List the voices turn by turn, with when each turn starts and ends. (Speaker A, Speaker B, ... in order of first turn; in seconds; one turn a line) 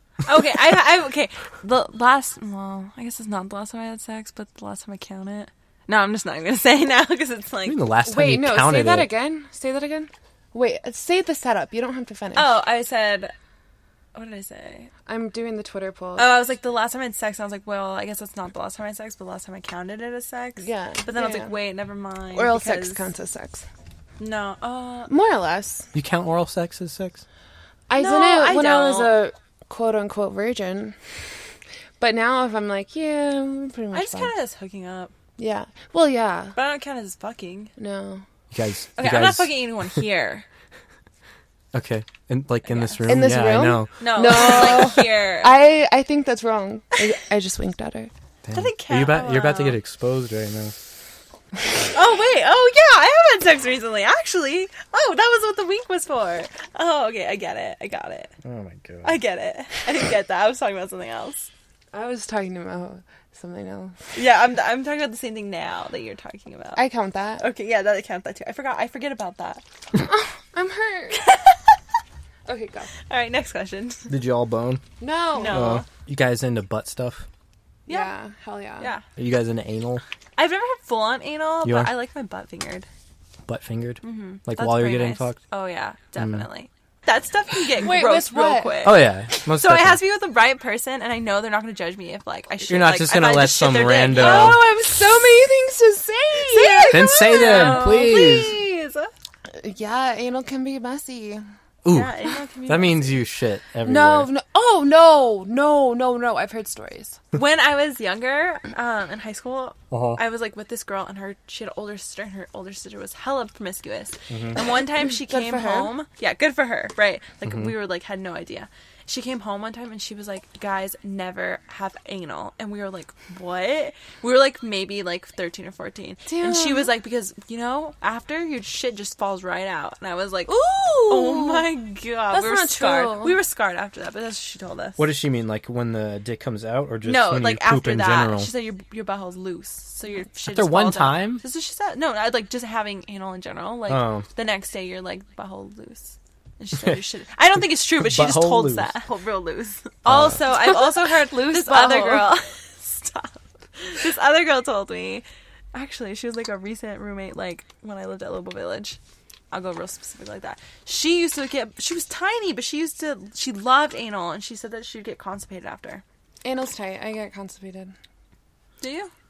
Speaker A: 0.2-7.8
Speaker B: 7.7-9.1
Speaker C: 8.0-12.6
Speaker A: 12.3-13.3
Speaker A: 14.1-14.9
Speaker C: 15.1-16.4
Speaker A: 16.2-23.1
Speaker C: 20.6-21.6
Speaker C: 22.3-23.6
Speaker A: 24.2-25.1
Speaker C: 25.1-25.9
Speaker B: 25.9-27.2
Speaker C: 27.9-31.0
Speaker A: 27.9-29.2
Speaker C: 32.0-34.3
Speaker A: 33.9-35.1
Speaker C: 35.4-36.5
Speaker A: 36.5-37.7
Speaker C: 37.8-38.2
Speaker B: 38.5-39.5
Speaker A: 39.0-40.4
Speaker B: 41.7-43.9
Speaker A: 42.6-43.0
Speaker C: 43.0-48.1
Speaker A: 44.0-45.5
Speaker B: 48.4-50.7
Speaker A: 48.5-49.8
Speaker A: 51.9-58.3
Speaker B: 58.4-59.2
Speaker A: 59.0-61.5
Speaker C: 61.9-64.1
Speaker A: 64.1-66.8
Speaker C: 66.8-67.4
Speaker A: 67.4-69.6
Speaker C: 70.0-71.2
Speaker A: 71.1-71.7
Speaker C: 72.5-72.9
Speaker A: 73.1-74.1
Speaker B: 74.1-74.8
Speaker C: 75.0-75.8
Speaker A: 75.3-75.9
Speaker B: 75.5-77.2
Speaker A: 77.9-78.1
Speaker C: 77.9-78.9
Speaker B: 79.2-80.0
Speaker A: 80.4-82.9
Speaker B: 81.6-81.9
Speaker B: 83.5-85.4
Speaker A: 84.0-94.8
Speaker B: 86.2-86.5
Speaker C: 87.7-88.9
Speaker B: 88.8-90.0
Speaker B: 92.7-94.6
Speaker C: 94.1-98.0
Speaker A: 96.4-99.1
Speaker B: 96.9-98.6
Speaker C: 99.5-101.4
Speaker B: 101.8-102.1
Speaker A: 101.9-103.2
Speaker B: 102.7-104.3
Speaker C: 103.8-107.2
Speaker A: 107.3-135.1
Speaker B: 109.9-110.2
Speaker B: 114.3-114.5
Speaker C: 114.9-115.9
Speaker B: 117.5-117.7
Speaker C: 126.3-126.9
Speaker C: 130.5-131.7
Speaker C: 132.3-133.4
Speaker B: 135.0-138.5
Speaker A: 137.0-159.0
Speaker B: 140.4-141.4
Speaker B: 143.9-144.2
Speaker B: 148.0-149.0
Speaker B: 150.1-150.4
Speaker C: 150.6-152.3
Speaker A: 159.5-166.0
Speaker C: 166.4-167.9
Speaker A: 168.8-169.1